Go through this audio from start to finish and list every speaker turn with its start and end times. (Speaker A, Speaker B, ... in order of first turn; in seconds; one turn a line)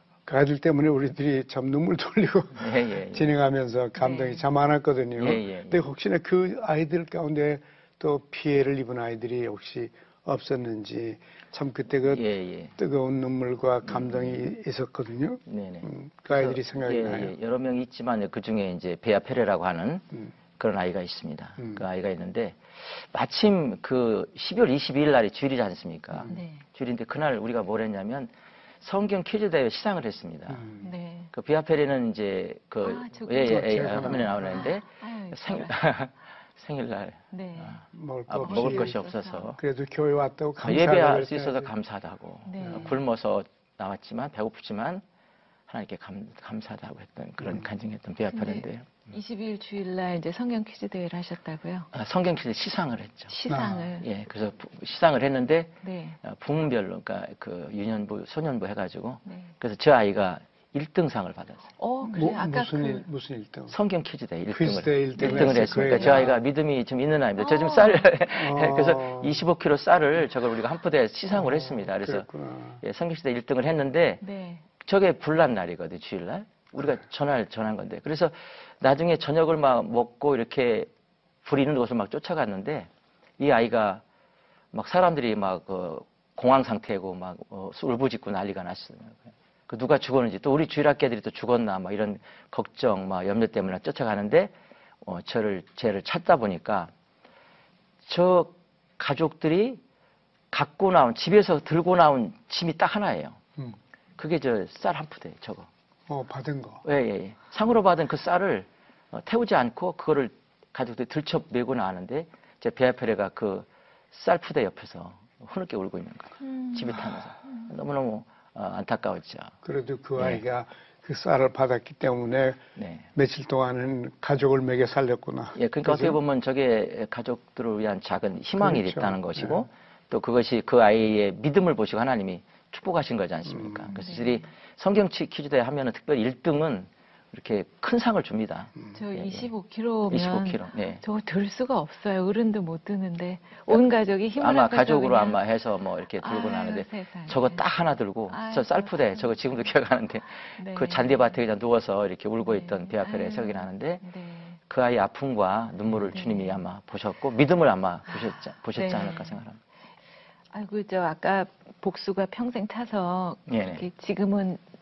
Speaker A: 0.3-17.3
Speaker B: 2.5-3.4
Speaker C: 4.0-4.5
Speaker B: 5.2-5.9
Speaker B: 12.0-12.7
Speaker B: 13.8-14.4
Speaker B: 15.5-20.0
Speaker B: 20.6-30.7
Speaker C: 26.3-26.6
Speaker A: 30.5-30.9
Speaker C: 30.8-31.3
Speaker B: 31.3-39.6
Speaker C: 32.8-35.8
Speaker A: 33.3-34.6
Speaker C: 37.3-37.8
Speaker A: 37.9-39.0
Speaker C: 38.4-39.6
Speaker A: 39.6-41.7
Speaker B: 40.6-45.0
Speaker C: 42.4-43.0
Speaker B: 45.7-49.1
Speaker C: 48.3-51.9
Speaker B: 51.9-53.4
Speaker C: 53.3-54.1
Speaker A: 53.5-53.9
Speaker B: 54.0-61.7
Speaker C: 55.8-56.2
Speaker C: 59.2-59.6
Speaker C: 61.8-63.1
Speaker A: 62.0-63.8
Speaker B: 63.7-72.3
Speaker A: 64.5-66.4
Speaker C: 65.2-66.2
Speaker C: 67.4-68.2
Speaker A: 68.3-69.5
Speaker A: 71.3-72.8
Speaker B: 72.8-74.2
Speaker C: 74.2-74.7
Speaker B: 74.8-80.9
Speaker B: 81.4-84.0
Speaker B: 84.7-96.9
Speaker B: 98.0-99.8
Speaker B: 100.5-103.4
Speaker B: 104.2-105.7
Speaker A: 106.1-106.8
Speaker B: 106.8-119.5
Speaker C: 116.4-117.7
Speaker A: 119.6-122.6
Speaker B: 120.2-120.4
Speaker B: 122.8-123.1
Speaker A: 123.1-126.2
Speaker B: 125.5-139.5
Speaker A: 128.6-129.7
Speaker A: 133.4-133.9
Speaker C: 133.9-134.4
Speaker C: 138.9-145.5
Speaker B: 140.1-141.0
Speaker B: 143.7-154.1
Speaker C: 146.1-149.8
Speaker C: 150.4-151.4
Speaker C: 152.4-154.6
Speaker B: 154.6-159.6
Speaker C: 156.0-156.7
Speaker C: 158.1-159.5
Speaker C: 160.5-164.6
Speaker B: 163.5-163.9